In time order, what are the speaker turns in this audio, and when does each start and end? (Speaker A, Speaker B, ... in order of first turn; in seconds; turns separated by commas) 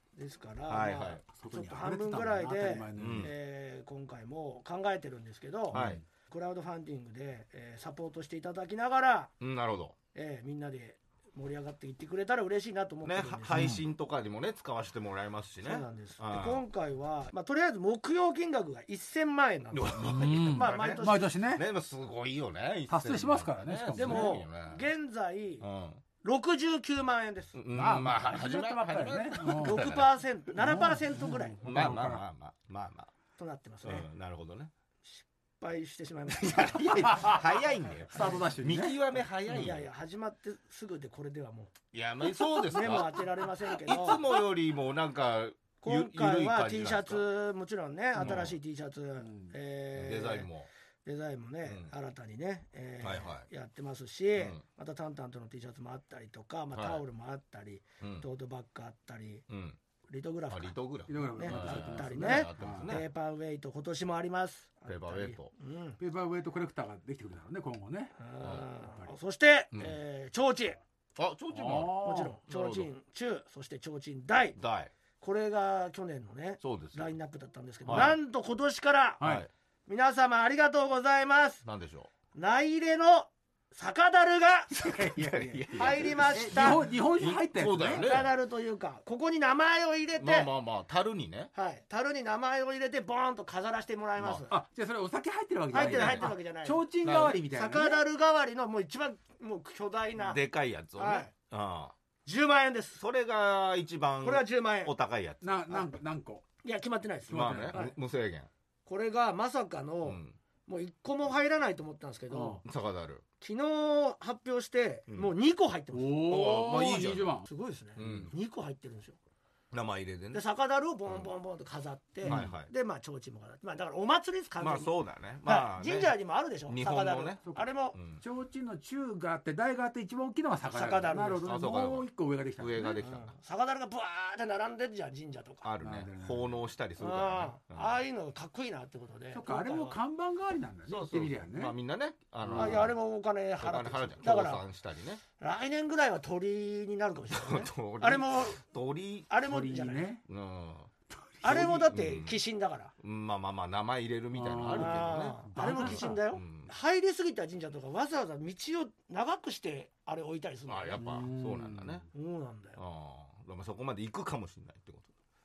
Speaker A: 0.1-9.3, Speaker B: 0.7-1.2, Speaker C: 1.4-3.3, Speaker B: 2.9-3.3, Speaker C: 5.7-6.0, Speaker B: 5.7-6.0, Speaker B: 9.4-9.9, Speaker A: 10.1-13.6, Speaker B: 13.0-16.6, Speaker C: 13.5-13.8, Speaker A: 15.6-21.3, Speaker B: 19.7-24.8, Speaker C: 20.0-21.6, Speaker C: 22.9-24.4, Speaker A: 23.9-25.6, Speaker B: 25.6-26.0, Speaker A: 26.2-27.5, Speaker B: 27.5-30.1, Speaker C: 27.7-29.8, Speaker A: 29.5-31.8, Speaker C: 30.6-32.2, Speaker B: 31.6-33.1, Speaker A: 33.4-34.1, Speaker B: 33.8-34.7, Speaker A: 35.0-37.3, Speaker B: 36.4-39.9, Speaker C: 37.0-37.4, Speaker C: 38.1-39.0, Speaker A: 39.5-41.7, Speaker B: 41.9-47.2, Speaker A: 42.4-44.3, Speaker A: 45.8-50.5, Speaker B: 48.1-48.5, Speaker C: 48.2-48.4, Speaker C: 49.2-49.5, Speaker B: 49.9-50.7, Speaker A: 51.0-59.4, Speaker B: 51.6-51.9, Speaker B: 53.0-53.5, Speaker B: 54.4-54.6, Speaker B: 56.7-57.0, Speaker B: 58.0-58.3, Speaker B: 59.5-59.8, Speaker A: 60.1-60.8, Speaker B: 60.5-63.0, Speaker C: 61.1-62.9, Speaker A: 61.3-66.0, Speaker B: 64.9-65.5, Speaker C: 66.0-68.2, Speaker A: 68.2-70.8, Speaker B: 71.2-72.9, Speaker C: 71.5-72.4, Speaker A: 72.0-74.6, Speaker B: 74.6-74.9, Speaker A: 75.2-79.2, Speaker B: 76.6-77.1, Speaker B: 77.8-78.2, Speaker C: 79.2-79.5, Speaker B: 79.2-79.5, Speaker A: 79.9-81.6, Speaker B: 81.6-82.1, Speaker A: 82.3-84.8, Speaker C: 84.8-88.2, Speaker B: 84.8-88.3, Speaker A: 85.8-86.9, Speaker A: 87.9-90.5, Speaker B: 90.2-91.5, Speaker A: 91.5-94.5, Speaker B: 94.2-94.4, Speaker C: 94.5-98.0, Speaker A: 95.7-96.9, Speaker B: 95.7-96.3, Speaker B: 97.0-97.4, Speaker A: 97.5-100.4, Speaker B: 100.2-101.9, Speaker A: 101.0-101.3, Speaker A: 102.2-103.0, Speaker B: 103.0-105.8, Speaker A: 104.2-104.9, Speaker C: 105.4-106.4, Speaker A: 106.6-107.9, Speaker C: 107.3-107.8, Speaker B: 107.3-108.5, Speaker A: 108.8-112.6, Speaker B: 110.0-110.4, Speaker C: 112.3-112.6, Speaker B: 112.6-113.2, Speaker A: 113.4-116.3, Speaker C: 115.9-117.5, Speaker B: 116.3-117.3, Speaker A: 117.4-119.2, Speaker B: 118.0-118.3, Speaker B: 119.7-120.4, Speaker A: 120.3-124.9, Speaker C: 122.2-122.5, Speaker B: 122.2-122.7, Speaker B: 124.6-127.4, Speaker A: 125.4-128.0, Speaker B: 127.9-128.2, Speaker C: 128.2-133.0, Speaker A: 130.7-131.5, Speaker B: 131.4-133.3, Speaker A: 133.0-135.7, Speaker B: 135.6-138.0, Speaker C: 135.8-136.5, Speaker A: 137.0-140.0, Speaker C: 139.3-141.7, Speaker B: 140.9-142.9, Speaker C: 142.4-142.9, Speaker A: 142.5-144.6, Speaker B: 143.6-145.2, Speaker A: 145.4-148.6, Speaker B: 147.3-149.3, Speaker A: 149.3-150.1, Speaker C: 149.4-150.2, Speaker B: 150.2-150.9, Speaker C: 151.1-151.6, Speaker A: 151.4-152.9, Speaker B: 151.4-152.4, Speaker B: 153.0-156.7, Speaker C: 154.3-156.2, Speaker A: 154.7-161.0, Speaker B: 160.7-162.1, Speaker C: 161.0-162.0, Speaker A: 162.1-162.8, Speaker B: 162.8-165.1